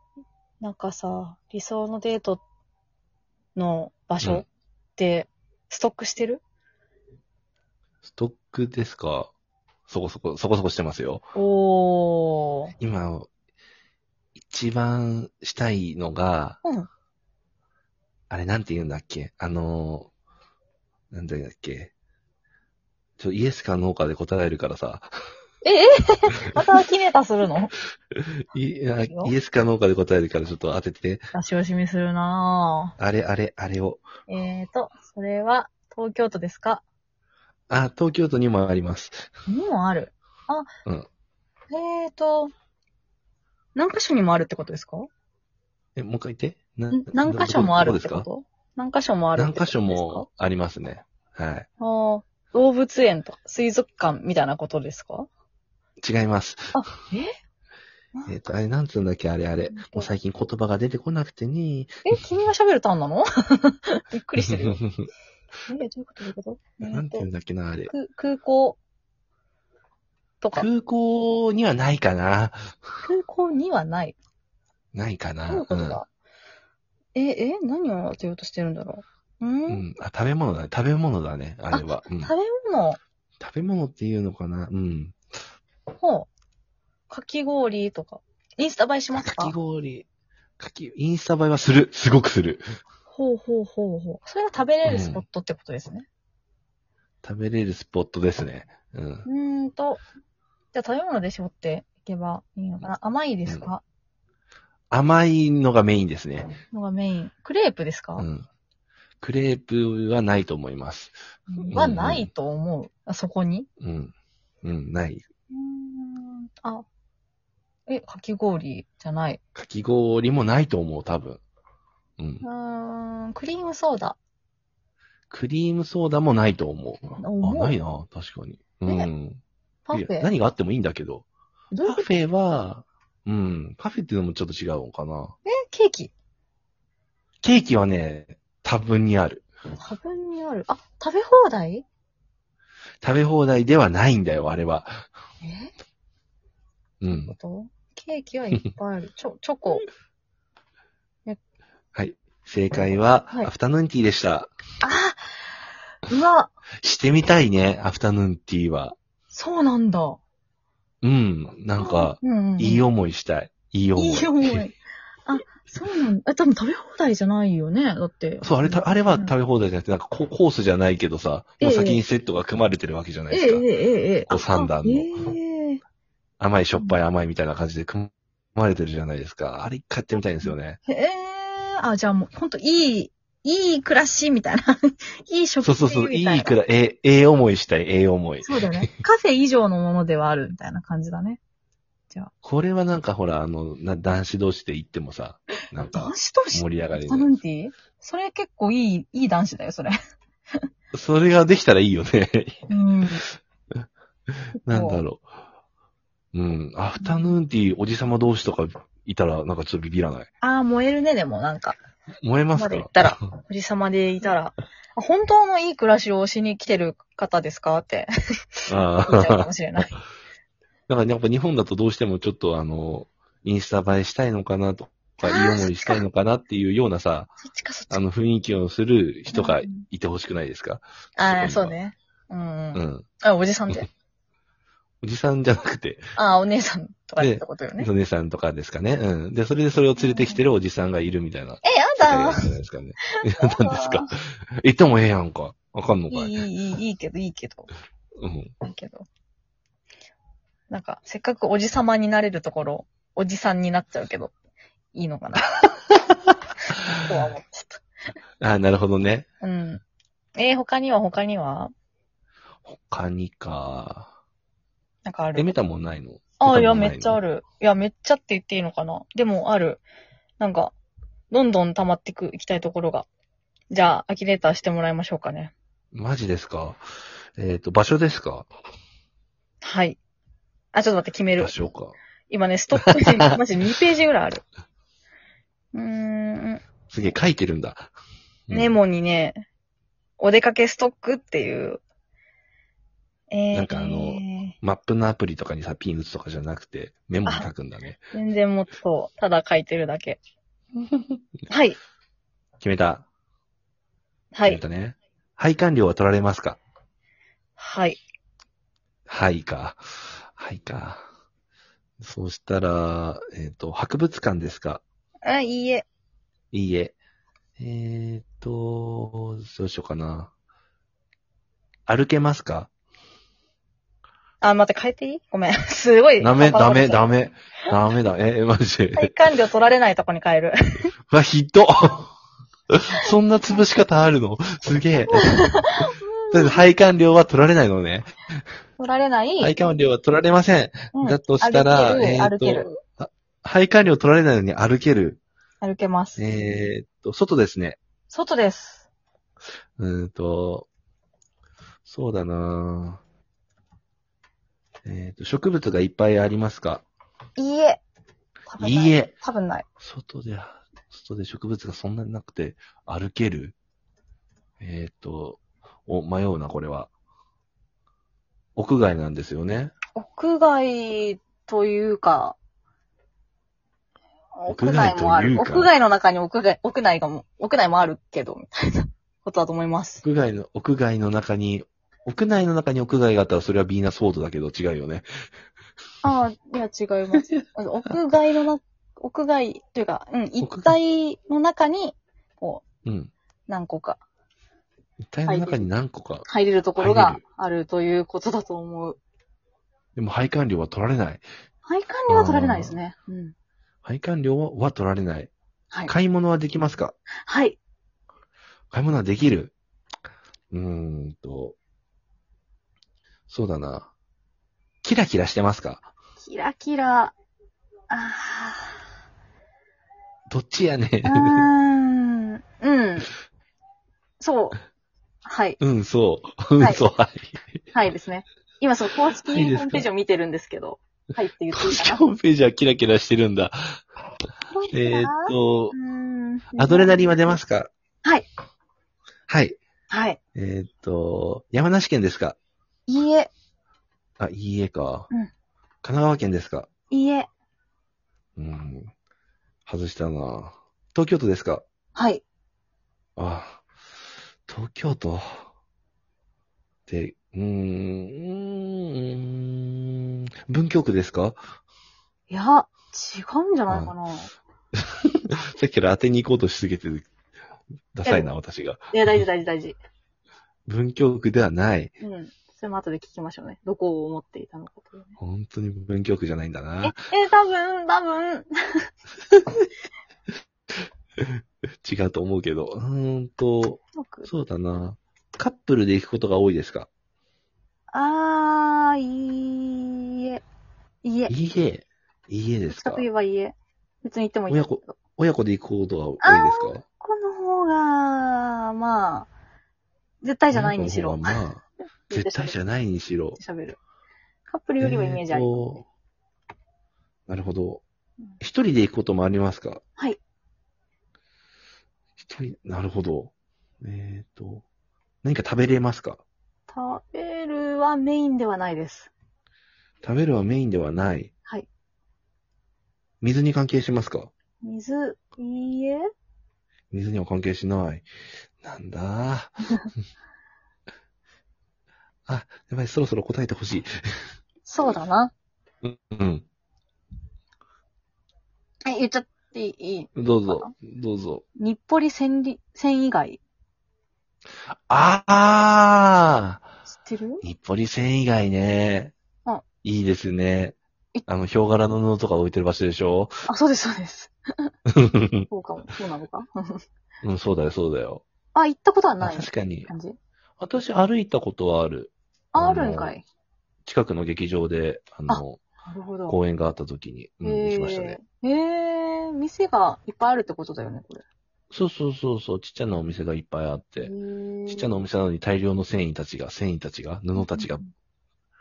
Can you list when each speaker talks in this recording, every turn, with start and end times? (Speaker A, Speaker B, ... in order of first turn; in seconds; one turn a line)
Speaker A: 0.6-2.4
Speaker A: 3.5-6.4
Speaker B: 8.0-9.3
Speaker B: 9.9-11.3
Speaker A: 11.3-12.7
Speaker B: 12.8-13.3
Speaker B: 14.4-16.6
Speaker B: 18.3-20.1
Speaker B: 21.1-21.9
Speaker B: 23.2-25.1
Speaker A: 25.6-27.7
Speaker B: 28.5-31.3
Speaker A: 29.0-29.3
Speaker A: 31.3-33.0
Speaker B: 33.0-34.1
Speaker A: 34.3-36.8
Speaker B: 37.7-39.3
Speaker A: 39.5-40.7
Speaker A: 41.7-42.5
Speaker A: 43.8-45.1
Speaker B: 46.0-48.3
Speaker A: 46.9-50.2
Speaker B: 49.4-51.7
Speaker A: 51.8-55.3
Speaker B: 56.0-56.8
Speaker A: 56.7-57.4
Speaker B: 58.3-62.1
Speaker A: 59.7-60.1
Speaker A: 62.1-64.8
Speaker B: 64.5-65.1
Speaker A: 65.7-67.3
Speaker B: 66.8-67.9
Speaker A: 67.9-68.8
Speaker A: 70.4-70.7
Speaker B: 70.5-72.8
Speaker A: 73.0-74.2
Speaker B: 74.9-76.0
Speaker A: 75.5-76.1
Speaker A: 77.2-79.8
Speaker B: 79.7-82.3
Speaker A: 81.7-83.0
Speaker B: 83.4-85.2
Speaker A: 86.0-86.3
Speaker A: 87.1-89.5
Speaker B: 89.1-90.1
Speaker B: 90.6-92.6
Speaker A: 93.1-96.1
Speaker B: 94.9-95.2
Speaker B: 97.2-99.3
Speaker A: 99.3-100.0
Speaker A: 100.7-103.8
Speaker B: 104.9-106.6
Speaker A: 106.7-108.3
Speaker B: 108.2-108.5
Speaker B: 109.2-112.3
Speaker A: 111.5-113.7
Speaker B: 113.8-115.3
Speaker A: 115.5-116.8
Speaker A: 117.9-119.4
Speaker B: 119.5-121.4
Speaker B: 122.2-122.5
Speaker A: 122.4-124.2
Speaker B: 125.3-129.4
Speaker A: 127.2-127.8
Speaker A: 129.9-130.3
Speaker B: 129.9-131.3
Speaker A: 131.7-132.2
Speaker B: 131.8-135.3
Speaker A: 135.5-136.1
Speaker B: 137.4-139.4
Speaker A: 139.8-141.8
Speaker B: 143.0-145.0
Speaker A: 145.4-145.7
Speaker B: 147.0-147.3
Speaker A: 147.1-149.9
Speaker B: 151.9-154.5
Speaker A: 154.8-155.3
Speaker A: 156.1-156.5
Speaker B: 156.8-159.0
Speaker A: 159.3-160.2
Speaker B: 161.0-164.7
Speaker A: 161.8-162.8
Speaker A: 164.0-164.8
Speaker A: 165.3-169.3
Speaker B: 168.4-173.7
Speaker A: 171.6-172.0
Speaker A: 173.3-175.8
Speaker B: 174.3-175.1
Speaker B: 176.4-180.8
Speaker A: 180.4-186.6
Speaker B: 185.6-188.9
Speaker A: 188.4-191.4
Speaker B: 192.4-197.3
Speaker A: 195.9-200.0
Speaker B: 200.9-202.7
Speaker A: 202.7-203.2
Speaker B: 204.6-205.3
Speaker A: 204.7-205.0
Speaker B: 206.3-210.3
Speaker A: 207.0-207.4
Speaker A: 210.4-211.8
Speaker B: 212.2-213.2
Speaker A: 212.6-219.9
Speaker B: 218.7-219.9
Speaker B: 220.9-227.3
Speaker A: 225.2-226.0
Speaker A: 227.4-228.0
Speaker B: 227.9-231.8
Speaker A: 229.3-229.9
Speaker A: 231.2-233.9
Speaker B: 232.7-233.1
Speaker B: 235.0-236.1
Speaker A: 236.2-237.9
Speaker B: 237.2-246.4
Speaker A: 240.0-240.4
Speaker A: 241.6-242.5
Speaker A: 243.2-244.1
Speaker A: 246.1-247.7
Speaker B: 248.2-248.5
Speaker A: 248.6-249.1
Speaker A: 250.7-254.3
Speaker A: 254.9-255.8
Speaker A: 256.9-257.8
Speaker B: 258.4-259.3
Speaker A: 259.4-259.8
Speaker A: 260.4-261.7
Speaker B: 262.7-264.1
Speaker A: 265.1-265.5
Speaker B: 265.4-267.2
Speaker A: 266.4-269.8
Speaker A: 270.4-270.7
Speaker A: 271.3-273.1
Speaker A: 273.7-275.5
Speaker B: 275.9-276.8
Speaker B: 277.4-278.5
Speaker A: 279.6-280.0
Speaker A: 280.7-281.5
Speaker B: 281.4-282.0
Speaker A: 282.3-284.4
Speaker B: 282.9-283.3
Speaker A: 285.7-286.6
Speaker B: 286.9-287.9
Speaker B: 288.5-288.8
Speaker A: 288.5-289.4
Speaker A: 290.2-291.8
Speaker A: 293.3-294.6
Speaker B: 293.5-298.0
Speaker A: 298.1-300.2
Speaker B: 300.9-301.2
Speaker A: 301.5-301.8
Speaker B: 302.6-303.1
Speaker A: 304.3-304.6
Speaker B: 304.4-306.6
Speaker A: 307.6-308.0
Speaker B: 309.1-311.0
Speaker B: 312.0-314.8
Speaker A: 315.2-315.9
Speaker B: 316.5-317.0
Speaker B: 317.6-320.3
Speaker B: 321.9-322.7
Speaker A: 324.4-327.1
Speaker B: 326.2-329.1
Speaker A: 329.0-330.9
Speaker B: 331.1-332.1
Speaker B: 332.7-338.1
Speaker A: 335.2-336.6
Speaker A: 338.8-339.6
Speaker B: 339.4-345.2
Speaker A: 340.9-342.8
Speaker A: 345.6-346.2
Speaker B: 346.2-347.8
Speaker A: 348.1-348.9
Speaker B: 349.8-350.7
Speaker B: 351.9-353.0
Speaker B: 354.9-356.9
Speaker A: 357.4-357.8
Speaker A: 358.5-359.7
Speaker B: 358.6-359.1
Speaker B: 359.8-363.6
Speaker B: 364.6-366.9
Speaker B: 368.6-369.7
Speaker A: 369.9-372.4
Speaker A: 374.4-380.0
Speaker B: 374.5-375.7
Speaker B: 380.0-385.1
Speaker A: 386.0-392.6
Speaker B: 390.4-390.8
Speaker B: 392.9-393.1
Speaker A: 393.5-394.0
Speaker B: 395.1-396.2
Speaker A: 395.3-395.7
Speaker A: 396.2-399.0
Speaker B: 396.8-397.2
Speaker B: 400.0-401.2
Speaker A: 401.6-403.3
Speaker B: 402.1-402.8
Speaker B: 403.8-405.3
Speaker B: 405.9-407.0
Speaker A: 407.3-407.6
Speaker B: 408.7-409.5
Speaker B: 410.5-411.6
Speaker B: 413.3-413.9
Speaker B: 414.8-415.9
Speaker A: 416.2-417.1
Speaker A: 417.9-418.8
Speaker B: 420.3-421.5
Speaker A: 421.1-423.1
Speaker A: 424.2-424.6
Speaker A: 425.2-425.6
Speaker B: 425.6-427.4
Speaker A: 426.6-426.9
Speaker A: 427.7-432.0
Speaker B: 429.2-429.9
Speaker B: 431.6-433.8
Speaker A: 434.5-437.4
Speaker B: 434.7-435.8
Speaker B: 436.6-437.7
Speaker B: 439.3-439.6
Speaker A: 439.9-440.2
Speaker B: 440.4-442.4
Speaker A: 442.9-443.3
Speaker B: 444.2-445.1
Speaker B: 445.8-446.7
Speaker A: 446.9-447.3
Speaker B: 448.4-448.9
Speaker B: 449.7-451.6
Speaker A: 451.9-452.2
Speaker B: 453.2-453.6
Speaker B: 454.5-455.4
Speaker B: 456.9-461.4
Speaker A: 462.3-464.3
Speaker B: 464.7-467.1
Speaker B: 467.9-468.9
Speaker A: 468.1-468.3
Speaker A: 468.9-469.8
Speaker B: 470.7-471.9
Speaker A: 472.0-475.2
Speaker B: 475.2-476.9
Speaker A: 476.8-478.9
Speaker B: 481.8-486.9
Speaker A: 483.9-484.3
Speaker A: 487.9-490.4
Speaker A: 491.0-491.4
Speaker B: 491.3-493.1
Speaker A: 492.7-495.0
Speaker B: 494.5-496.8
Speaker A: 496.2-499.3
Speaker A: 500.2-502.6
Speaker B: 500.5-503.4
Speaker A: 503.4-503.8
Speaker A: 504.5-505.8
Speaker B: 504.8-505.8
Speaker B: 507.3-507.8
Speaker B: 508.4-509.8
Speaker B: 512.2-514.6
Speaker B: 515.2-516.2
Speaker A: 516.7-519.1
Speaker B: 520.0-521.3
Speaker B: 523.2-524.3
Speaker A: 524.6-526.1
Speaker B: 526.9-528.1
Speaker B: 528.6-529.6
Speaker B: 532.3-533.9
Speaker A: 534.7-535.3
Speaker B: 535.8-536.5
Speaker A: 538.9-540.7
Speaker B: 540.2-541.4
Speaker A: 541.6-543.4
Speaker B: 544.7-546.6
Speaker A: 546.9-547.4
Speaker B: 547.4-549.1
Speaker B: 549.8-553.5
Speaker A: 553.5-554.3
Speaker B: 554.9-555.5
Speaker A: 555.5-556.8
Speaker B: 557.2-558.2
Speaker A: 558.5-560.2
Speaker B: 559.2-559.9
Speaker B: 560.6-563.2
Speaker A: 562.5-563.2
Speaker B: 563.9-565.6
Speaker A: 565.3-566.4
Speaker B: 566.3-568.2
Speaker A: 567.4-571.2
Speaker B: 571.7-574.1
Speaker A: 574.0-575.0
Speaker B: 574.7-577.8
Speaker A: 577.4-577.9